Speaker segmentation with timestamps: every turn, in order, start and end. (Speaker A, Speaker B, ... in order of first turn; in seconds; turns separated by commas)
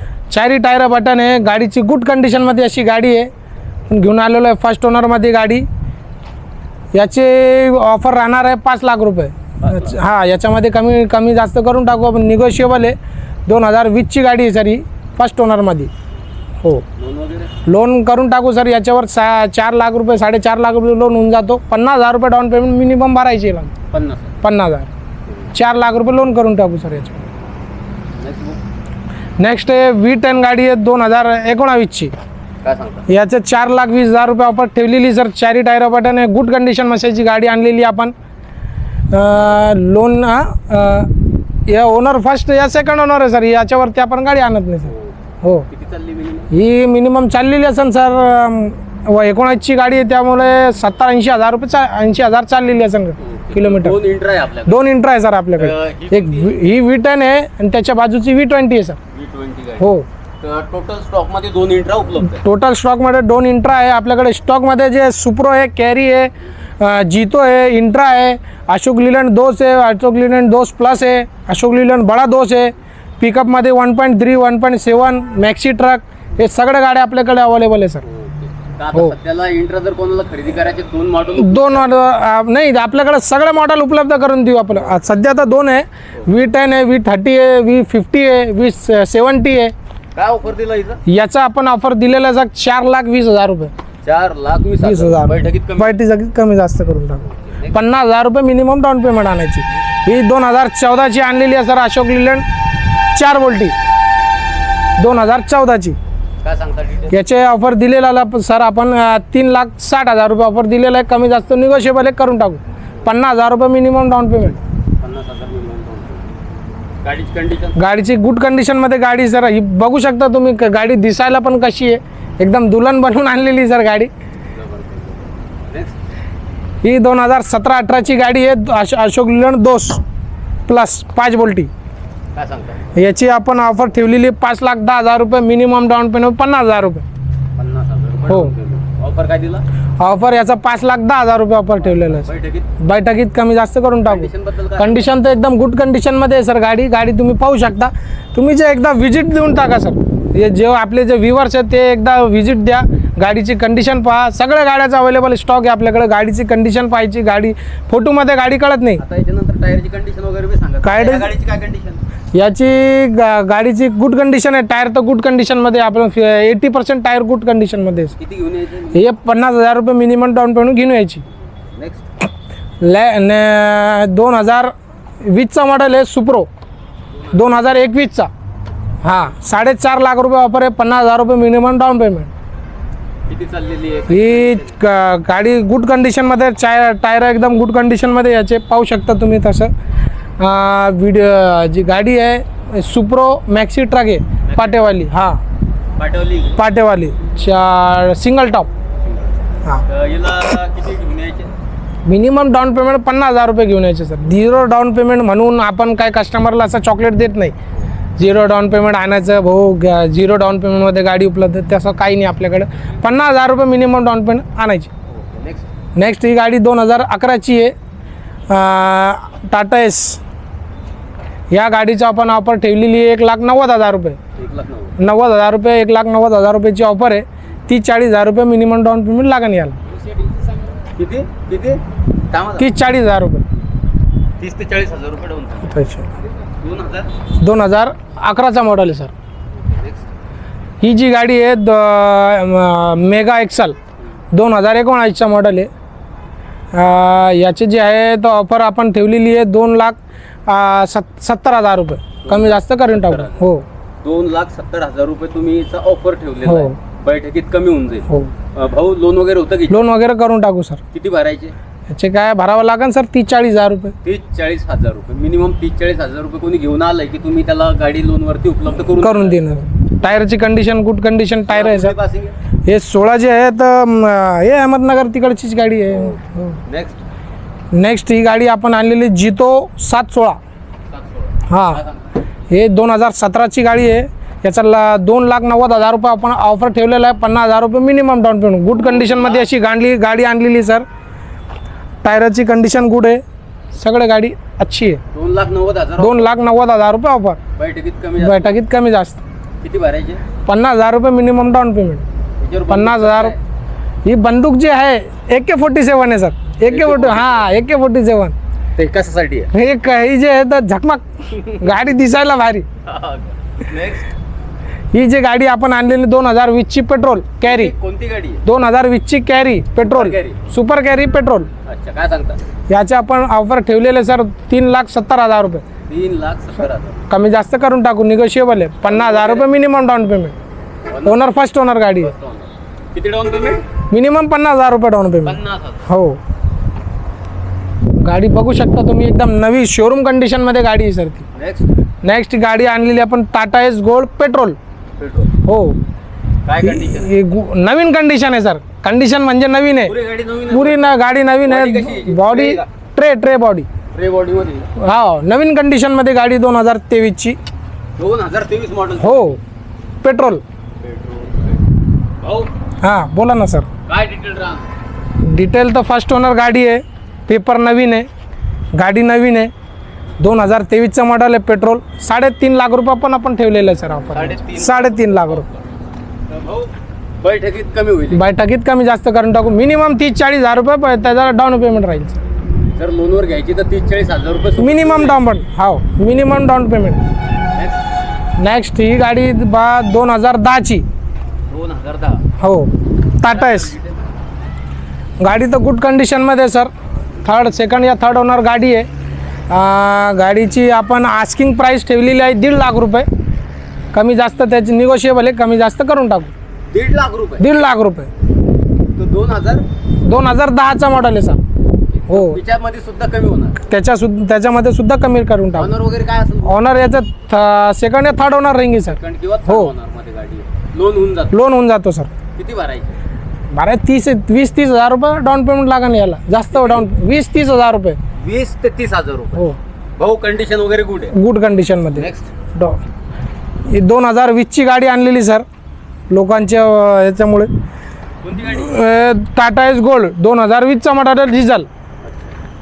Speaker A: 0.3-3.3, Speaker A: 3.9-5.7, Speaker A: 6.9-13.0, Speaker B: 9.6-10.0, Speaker A: 13.5-15.9, Speaker B: 17.0-17.5, Speaker A: 17.7-23.7, Speaker B: 23.9-24.4, Speaker A: 24.4-24.9, Speaker A: 25.5-27.3, Speaker B: 28.2-28.6, Speaker A: 29.4-32.1, Speaker B: 32.6-33.1, Speaker A: 33.1-38.1, Speaker A: 39.1-41.1, Speaker A: 41.7-44.9, Speaker B: 44.9-45.1, Speaker A: 45.4-45.7, Speaker B: 45.7-46.5, Speaker A: 46.5-54.0, Speaker B: 53.2-54.8, Speaker A: 54.7-59.0, Speaker B: 55.6-56.6, Speaker B: 59.1-62.4, Speaker A: 59.8-60.0, Speaker A: 62.3-78.0, Speaker B: 78.0-81.9, Speaker A: 81.4-89.7, Speaker B: 90.2-91.0, Speaker A: 91.1-93.7, Speaker B: 94.0-96.0, Speaker A: 94.8-102.5, Speaker B: 97.3-97.8, Speaker A: 103.2-103.8, Speaker A: 105.0-106.0, Speaker B: 106.4-107.2, Speaker A: 107.1-114.6, Speaker B: 115.0-116.3, Speaker B: 117.0-117.8, Speaker A: 117.8-124.1, Speaker B: 124.5-126.0, Speaker A: 126.8-130.0, Speaker A: 130.7-131.7, Speaker B: 132.3-132.9, Speaker A: 132.9-137.0, Speaker B: 137.6-139.6, Speaker A: 138.3-138.5, Speaker A: 140.0-159.0, Speaker B: 141.8-142.7, Speaker B: 144.1-145.1, Speaker B: 159.0-162.0, Speaker A: 160.8-161.3, Speaker A: 162.3-168.2, Speaker B: 168.2-169.0, Speaker A: 168.9-171.2, Speaker B: 171.7-172.1, Speaker A: 172.8-176.5, Speaker B: 177.2-177.6, Speaker A: 177.3-178.3, Speaker A: 179.0-182.3, Speaker B: 183.3-184.7, Speaker A: 184.1-189.7, Speaker A: 190.4-195.4, Speaker B: 194.5-194.9, Speaker B: 196.0-196.6, Speaker A: 196.6-198.7, Speaker B: 199.9-201.5, Speaker A: 202.1-207.5, Speaker A: 208.2-214.9, Speaker B: 215.1-215.7, Speaker A: 216.0-217.8, Speaker A: 218.5-220.2, Speaker A: 221.5-224.2, Speaker B: 224.4-225.0, Speaker A: 225.0-229.8, Speaker B: 230.0-231.8, Speaker B: 232.3-232.7, Speaker A: 232.6-233.4, Speaker B: 234.4-235.8, Speaker A: 235.7-236.1, Speaker B: 236.6-237.1, Speaker A: 237.4-239.1, Speaker B: 239.7-240.1, Speaker A: 240.8-243.8, Speaker A: 244.3-245.7, Speaker A: 246.7-253.7, Speaker B: 252.2-253.4, Speaker B: 254.0-259.9, Speaker A: 256.4-256.8, Speaker A: 259.7-260.8, Speaker B: 260.9-261.5, Speaker A: 261.9-263.9, Speaker B: 264.0-269.4, Speaker A: 269.0-271.9, Speaker B: 271.5-272.3, Speaker A: 272.7-276.6, Speaker B: 275.9-277.0, Speaker A: 277.7-280.4, Speaker B: 280.9-282.2, Speaker A: 281.5-281.8, Speaker A: 282.5-290.9, Speaker B: 288.7-289.5, Speaker A: 292.0-293.2, Speaker A: 293.7-295.0, Speaker B: 295.1-296.3, Speaker A: 296.0-297.4, Speaker B: 297.6-298.6, Speaker A: 298.2-299.2, Speaker B: 299.6-300.2, Speaker A: 300.5-302.0, Speaker B: 302.4-303.4, Speaker A: 302.7-303.4, Speaker A: 304.1-308.4, Speaker B: 306.6-307.5, Speaker B: 308.8-309.5, Speaker A: 309.5-312.7, Speaker B: 312.9-314.1, Speaker A: 314.9-317.7, Speaker B: 317.4-318.4, Speaker A: 318.5-321.5, Speaker B: 319.8-320.4, Speaker B: 321.6-322.4, Speaker A: 322.7-325.6, Speaker B: 325.9-327.0, Speaker A: 327.1-330.4, Speaker B: 328.9-329.5, Speaker B: 330.9-331.3, Speaker A: 331.0-332.1, Speaker B: 332.0-333.6, Speaker A: 333.9-336.2, Speaker B: 335.2-335.9, Speaker A: 338.0-341.2, Speaker B: 341.4-341.7, Speaker A: 342.0-344.6, Speaker B: 345.0-345.3, Speaker A: 345.5-345.8, Speaker B: 346.4-347.2, Speaker A: 346.6-349.9, Speaker B: 349.9-350.9, Speaker A: 350.5-353.7, Speaker B: 351.5-352.7, Speaker B: 353.9-354.7, Speaker A: 354.8-357.4, Speaker B: 358.0-359.4, Speaker A: 359.0-359.4, Speaker A: 360.0-360.4, Speaker B: 360.8-361.6, Speaker B: 362.2-362.5, Speaker A: 362.8-363.7, Speaker B: 363.9-364.7, Speaker A: 365.2-368.1, Speaker A: 368.8-369.5, Speaker A: 370.2-375.4, Speaker B: 374.1-375.6, Speaker B: 376.3-378.3, Speaker A: 378.1-382.2, Speaker B: 382.8-385.2, Speaker A: 384.6-387.0, Speaker B: 387.5-387.8, Speaker A: 388.4-390.9, Speaker B: 391.5-392.2, Speaker A: 392.4-393.7, Speaker B: 393.2-394.1, Speaker A: 395.2-396.7, Speaker A: 397.2-398.9, Speaker A: 399.5-403.1, Speaker A: 403.9-406.3, Speaker B: 406.7-407.5, Speaker A: 407.4-408.1, Speaker B: 408.9-409.6, Speaker A: 410.0-411.4, Speaker B: 411.9-413.6, Speaker A: 412.1-412.4, Speaker A: 413.6-415.7, Speaker B: 415.6-416.6, Speaker A: 416.4-419.7, Speaker B: 418.9-421.3, Speaker A: 421.3-422.1, Speaker B: 422.4-422.9, Speaker A: 423.5-428.0, Speaker B: 426.5-426.9, Speaker B: 428.2-429.5, Speaker B: 430.0-431.1, Speaker A: 431.1-432.8, Speaker B: 431.9-432.3, Speaker A: 433.7-435.4, Speaker A: 436.1-437.5, Speaker B: 438.2-438.8, Speaker A: 438.5-441.7, Speaker B: 442.0-442.3